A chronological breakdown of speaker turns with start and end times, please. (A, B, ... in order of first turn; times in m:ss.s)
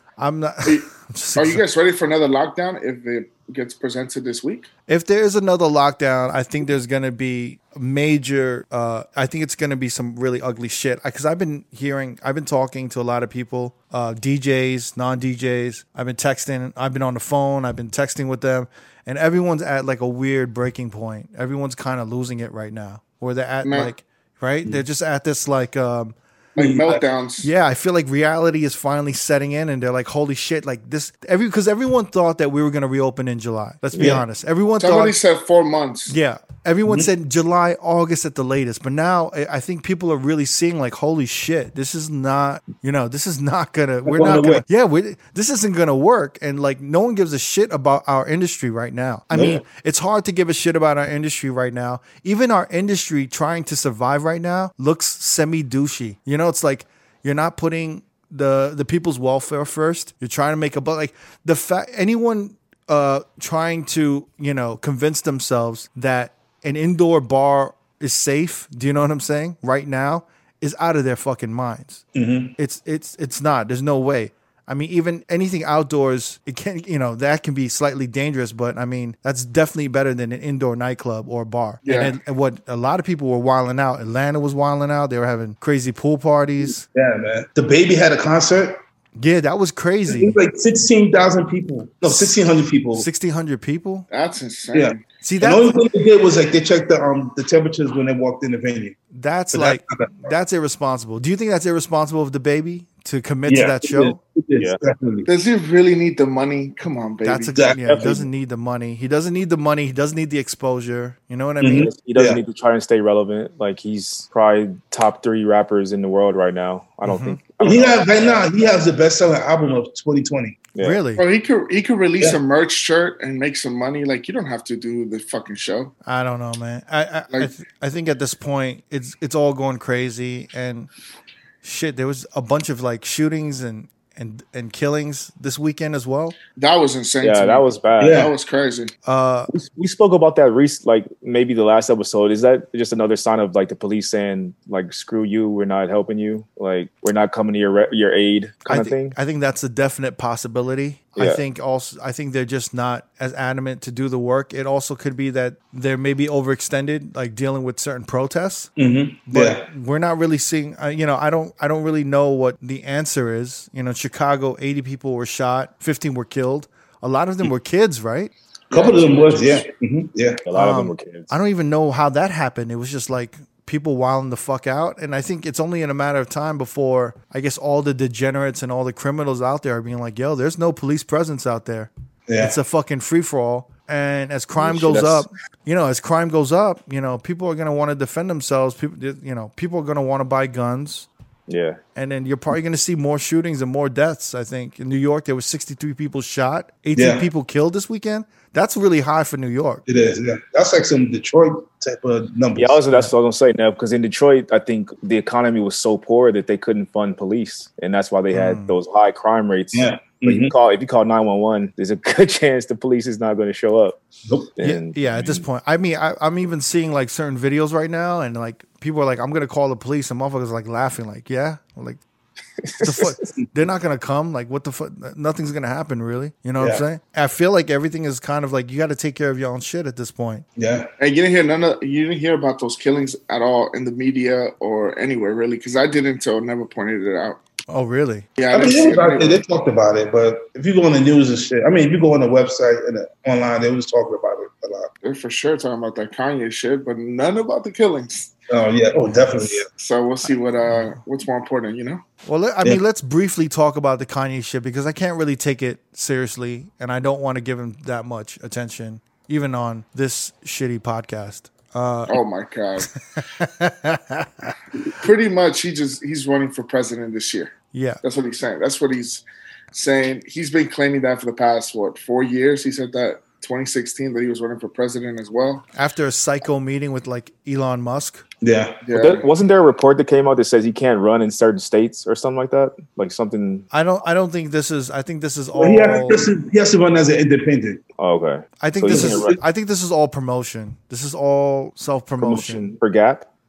0:00.2-0:01.6 A
0:00.6-0:04.7 B
0:04.9-0:26.2 A
0:23.6-0:23.9 B
0:26.5-0:27.5 B
0:26.6-0:27.0 C
0:27.4-0:35.1 A
0:33.9-0:34.2 D
0:34.0-0:34.2 C
0:34.8-0:36.1 B
0:36.1-1:12.0 A
0:44.0-0:44.6 C
0:49.3-0:49.6 C
1:12.1-1:12.5 C
1:12.6-1:26.8 A
1:21.8-1:22.2 B
1:26.9-1:28.8 C
1:29.2-1:30.4 A
1:30.1-1:33.0 C
1:32.9-1:34.0 A
1:34.1-1:35.0 B
1:34.7-1:39.0 C
1:35.2-1:35.8 A
1:39.1-1:44.2 A
1:39.5-1:40.3 C
1:43.4-1:45.3 C
1:45.2-1:47.6 B
1:47.2-1:51.9 A
1:47.5-1:48.2 C
1:47.9-1:48.2 D
1:51.6-1:52.4 C
1:51.8-1:58.7 D
1:57.0-1:57.4 A
1:57.6-2:00.6 C
2:00.8-2:01.2 A
2:01.2-2:05.9 B
2:06.0-2:10.9 A
2:11.6-2:16.4 A
2:16.6-2:18.9 B
2:17.2-2:18.2 D
2:18.0-2:18.3 C
2:19.0-2:19.5 A
2:19.5-2:29.1 D
2:28.7-2:38.7 A
2:31.2-2:31.4 D
2:38.8-2:39.6 C
2:39.3-2:48.3 A
2:48.7-2:50.4 C
2:48.7-2:49.6 B
2:50.4-2:51.3 D
2:50.5-3:11.1 A
3:02.3-3:02.6 C
3:04.6-3:05.3 D
3:11.5-3:11.8 D
3:12.0-3:19.8 A
3:17.0-3:17.3 C
3:19.9-3:22.8 C
3:22.6-3:34.0 D
3:28.3-3:28.8 A
3:29.7-3:30.5 C
3:34.3-3:34.5 C
3:34.6-3:35.4 D
3:34.6-3:42.0 A
3:42.6-3:43.3 D
3:42.8-3:50.4 A
3:46.6-3:46.8 C
3:50.6-3:50.9 C
3:51.0-3:57.4 B
3:57.7-3:58.2 A
3:58.4-3:59.4 B
3:58.5-4:04.9 C
4:05.0-4:08.3 B
4:08.5-4:09.7 C
4:09.8-4:12.0 B
4:12.2-4:22.2 A
4:22.1-4:22.9 B
4:23.4-4:24.5 A
4:24.9-4:35.6 B
4:27.7-4:28.0 A
4:35.7-4:38.2 A
4:38.4-4:38.8 C
4:38.8-4:39.3 B
4:38.9-4:43.7 D
4:43.7-4:46.2 A
4:45.6-4:47.8 C
4:48.0-4:49.4 D
4:48.6-4:52.7 A
4:48.9-4:49.4 C
4:52.2-4:53.3 D